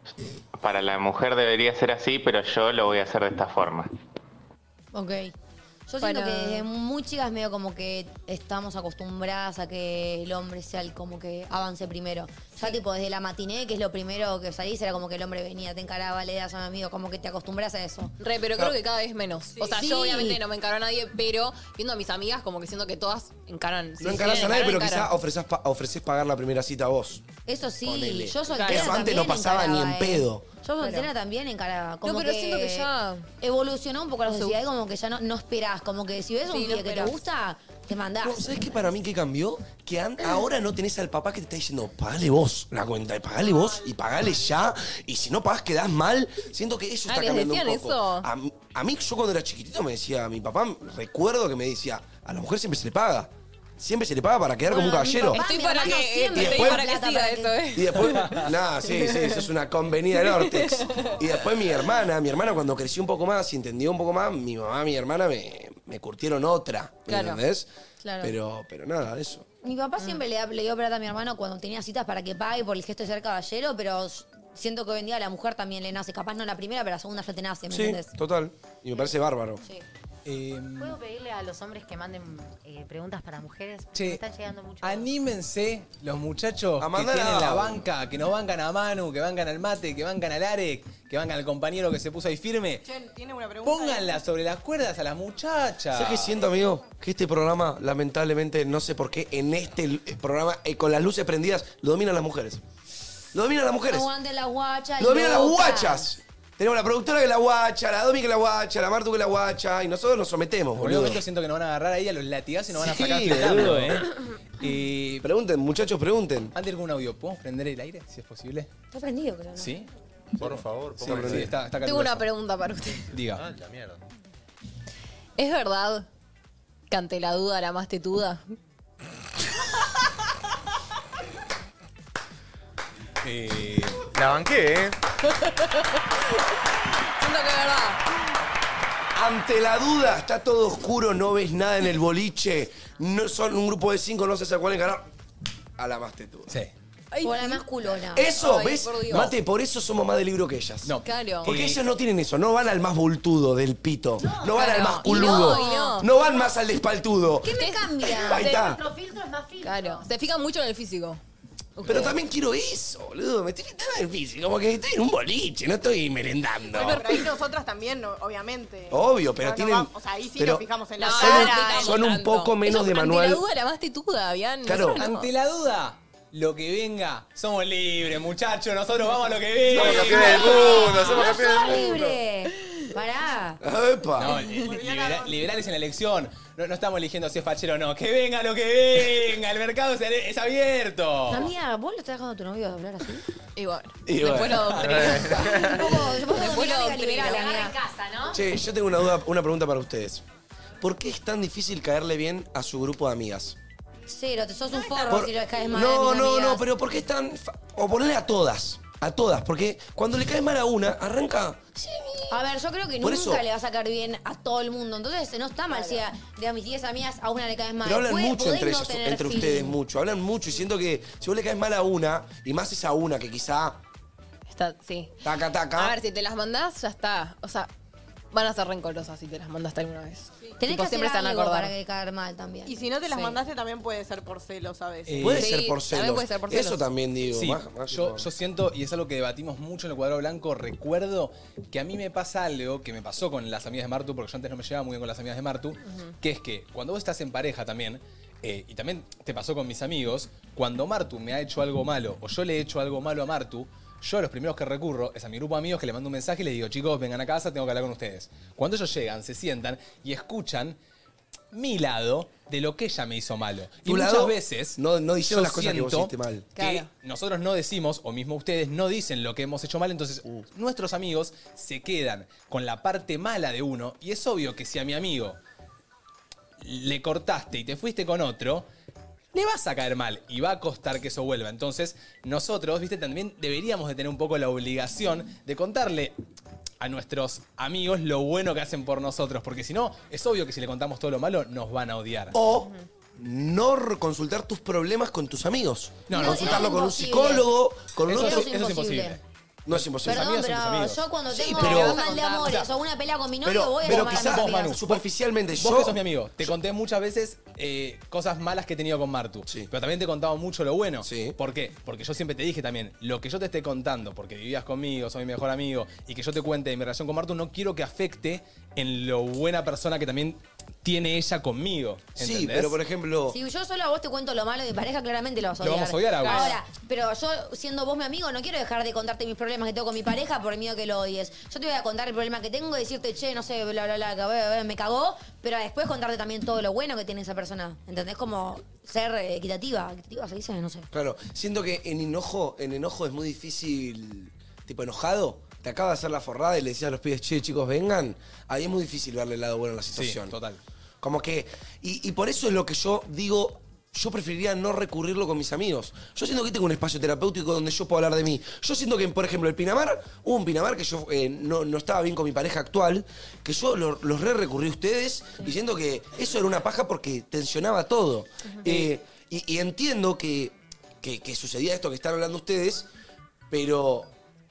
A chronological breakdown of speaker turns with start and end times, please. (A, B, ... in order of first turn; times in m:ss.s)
0:00.6-0:03.9 A
0:04.9-0:05.3 B
0:05.9-0:18.1 B
0:06.0-0:06.7 C
0:18.2-0:25.1 C
0:19.6-0:20.4 B
0:24.0-0:27.3 D
0:27.5-0:38.5 B
0:27.8-0:30.5 D
0:28.5-0:29.1 C
0:30.8-0:31.1 C
0:32.0-0:33.3 C
0:34.2-0:34.6 C
0:36.5-0:37.2 C
0:38.2-0:55.4 D
0:43.5-0:44.4 E
0:47.1-0:48.3 C
0:54.7-0:57.7 B
0:54.8-0:59.5 C
0:56.3-0:56.9 D
0:57.7-1:07.7 D
1:00.2-1:01.2 C
1:07.1-1:07.4 C
1:08.0-1:08.3 B
1:08.2-1:09.5 D
1:09.6-1:18.1 B
1:17.7-1:19.6 D
1:20.2-1:21.0 F
1:20.8-1:25.1 G
1:23.9-1:24.2 F
1:24.8-1:32.8 F
1:26.8-1:27.9 D
1:32.8-1:34.2 E
1:33.6-1:36.4 F
1:35.9-1:42.6 D
1:43.3-1:44.1 D
1:43.9-1:46.1 B
1:45.0-1:51.2 D
1:50.8-1:55.2 F
1:52.8-1:54.1 D
1:55.2-1:56.5 D
1:56.6-1:58.7 F
1:58.9-1:59.7 B
1:59.6-1:59.9 F
2:00.4-2:01.5 H
2:01.0-2:02.3 F
2:01.0-2:01.5 D
2:01.8-2:03.0 C
2:03.1-2:03.5 F
2:03.2-2:04.0 H
2:05.4-2:06.1 C
2:06.9-2:08.6 C
2:13.2-2:14.1 F
2:14.1-2:15.0 H
2:15.3-2:16.1 C
2:17.2-2:18.0 C
2:19.1-2:25.1 D
2:25.8-2:26.6 D
2:27.1-2:27.7 C
2:27.2-2:28.3 B
2:28.1-2:38.8 D
2:28.3-2:29.3 C
2:30.8-2:31.8 F
2:31.0-2:31.5 C
2:34.2-2:36.0 G
2:34.5-2:36.1 C
2:37.4-2:38.6 B
2:37.5-2:38.1 C
2:38.2-2:40.1 G
2:39.6-2:41.2 C
2:41.8-2:42.2 C
2:41.8-2:47.1 D
2:46.7-2:52.0 E
2:46.8-2:47.2 C
2:48.9-2:53.4 D
2:51.0-2:55.3 C
2:54.6-2:55.0 D
2:55.0-3:01.0 F
2:59.7-3:02.2 H
3:00.0-3:03.6 B
3:03.6-3:04.4 D
3:04.2-3:11.5 F
3:04.5-3:05.4 E
3:11.3-3:13.2 B
3:13.6-3:17.7 C
3:14.1-3:15.3 D
3:14.2-3:15.2 F
3:15.4-3:17.8 B
3:17.2-3:18.4 G
3:18.3-3:20.2 D
3:20.8-3:23.6 D
3:24.1-3:26.7 B
3:25.1-3:32.4 D
3:32.3-3:39.8 B
3:33.0-3:33.5 D
3:35.7-3:36.0 C
3:37.8-3:43.8 D
3:44.5-3:45.1 C
3:45.2-3:46.0 D
3:45.7-3:47.7 C
3:48.3-3:51.7 C
3:50.6-3:52.8 B
3:52.7-3:55.2 E
3:53.1-3:53.4 C
3:55.1-3:55.5 F
3:55.2-3:58.3 D
3:55.3-3:56.8 C
3:57.3-4:20.8 F
4:05.9-4:06.1 C
4:21.5-4:35.4 F
4:23.8-4:26.5 D
4:26.6-4:26.9 C
4:36.6-4:38.7 F
4:39.3-4:46.2 F
4:46.8-4:52.4 F
4:52.3-4:58.5 D
4:56.1-4:56.7 F
4:56.1-4:57.5 B
4:58.1-5:01.0 F
4:58.1-4:59.2 B
4:59.7-5:00.3 D
5:00.0-5:04.8 B
5:01.3-5:02.0 D
5:01.4-5:02.7 C
5:03.4-5:06.5 D
5:03.8-5:05.0 F
5:05.6-5:22.8 F
5:11.0-5:11.4 D
5:22.2-5:23.4 D
5:23.3-5:40.9 B
5:25.6-5:26.6 F
5:26.2-5:26.6 C
5:40.9-5:50.4 D
5:49.9-5:50.6 F
5:51.0-6:12.9 D
6:13.5-6:14.1 D